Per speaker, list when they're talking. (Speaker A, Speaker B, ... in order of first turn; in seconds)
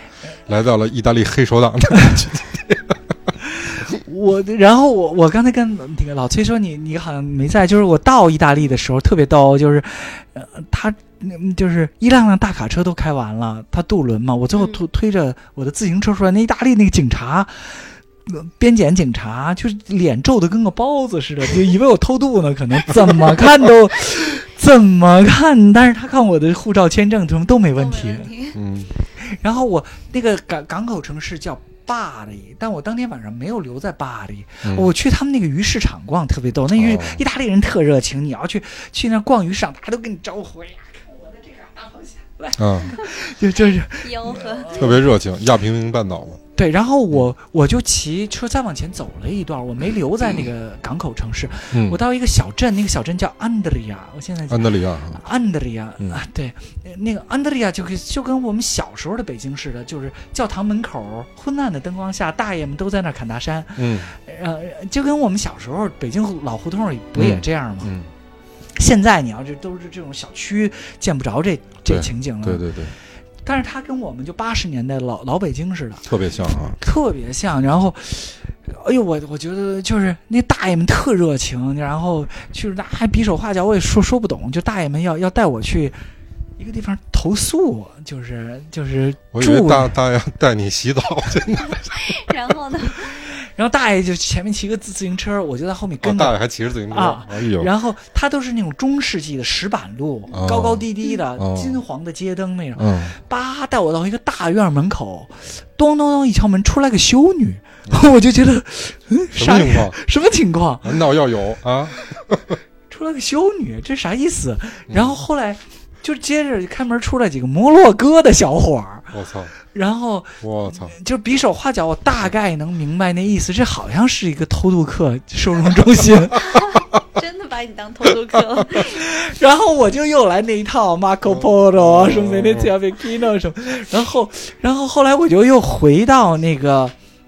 Speaker A: 0.5-3.3, 28.5-28.9, 34.6-34.9, 36.7-37.2, 42.6-43.0, 44.7-46.4, 51.7-52.0, 54.5-55.2, 63.8-64.1, 67.2-68.1, 71.8-72.9, 76.0-76.8, 89.3-92.5, 96.0-97.7, 100.3-101.8, 102.8-103.2, 109.3-110.0, 110.8-112.6, 114.9-115.2, 119.1-119.5, 120.4-121.0, 131.2-132.7
Speaker B: 3.4-28.3, 29.2-45.0, 46.5-67.9, 68.8-72.6, 73.4-76.1, 76.6-86.0, 86.6-89.9, 93.0-96.4, 96.9-111.0, 112.9-119.1, 119.7-126.5, 128.8-136.9
Speaker C: 27.8-28.6, 43.5-44.7, 91.8-93.1, 126.5-129.0